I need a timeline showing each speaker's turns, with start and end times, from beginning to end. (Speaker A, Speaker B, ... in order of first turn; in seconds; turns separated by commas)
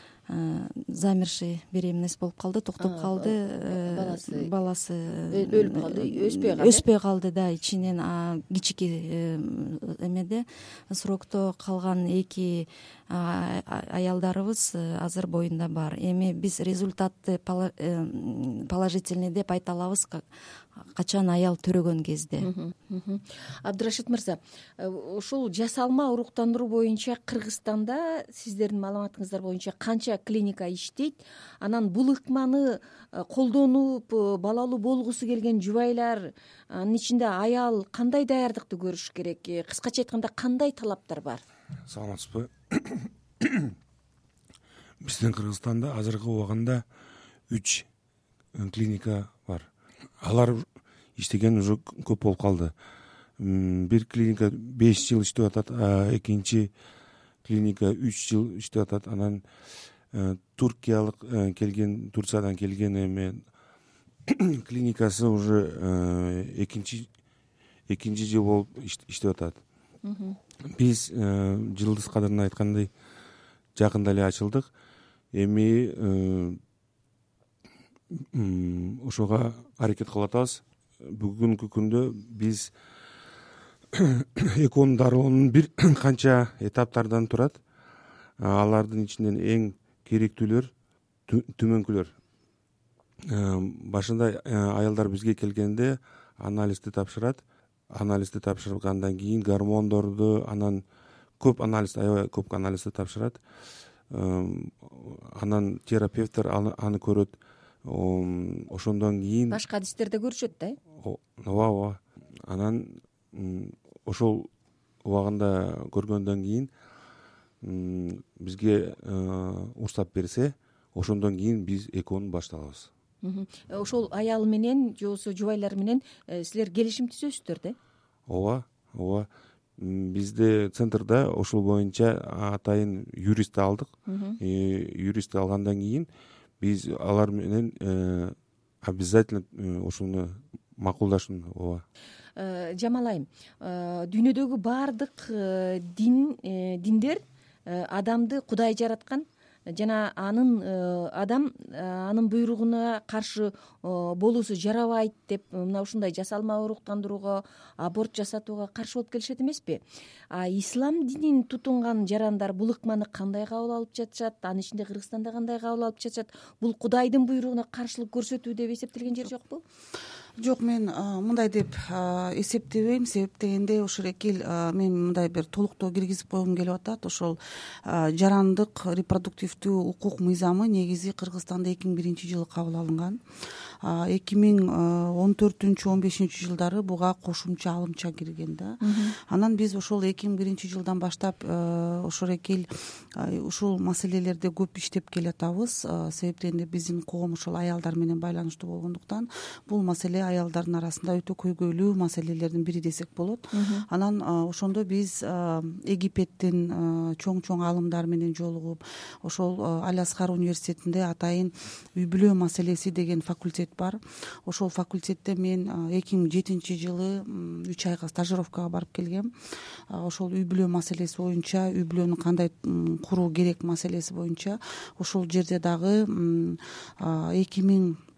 Speaker A: 0.3-20.2, Speaker B: 2.8-4.5, Speaker B: 5.3-6.8, Speaker A: 20.9-22.5, Speaker B: 22.4-41.4, Speaker C: 41.9-43.7, Speaker C: 45.0-46.8, Speaker C: 47.5-47.9, Speaker C: 48.5-49.7, Speaker C: 50.2-50.6, Speaker C: 51.2-52.7, Speaker C: 53.4-56.7, Speaker C: 57.4-59.4, Speaker C: 60.1-63.5, Speaker C: 64.3-67.1, Speaker C: 67.9-69.6, Speaker B: 70.0-70.3, Speaker C: 70.7-72.9, Speaker C: 73.8-74.7, Speaker C: 75.3-76.6, Speaker C: 78.3-82.7, Speaker C: 83.9-87.6, Speaker C: 88.4-90.7, Speaker C: 91.3-92.1, Speaker C: 93.3-100.8, Speaker C: 101.4-103.4, Speaker C: 104.1-109.6, Speaker B: 109.5-110.8, Speaker C: 111.0-114.5, Speaker C: 115.0-116.7, Speaker C: 117.6-122.9, Speaker B: 123.2-127.8, Speaker C: 128.3-136.1, Speaker B: 134.1-134.4, Speaker C: 136.6-141.8, Speaker B: 142.3-159.8, Speaker B: 160.3-169.6, Speaker D: 170.4-183.2, Speaker D: 183.8-192.7, Speaker B: 188.8-189.1, Speaker D: 193.2-219.3, Speaker B: 203.5-203.8, Speaker D: 219.9-228.0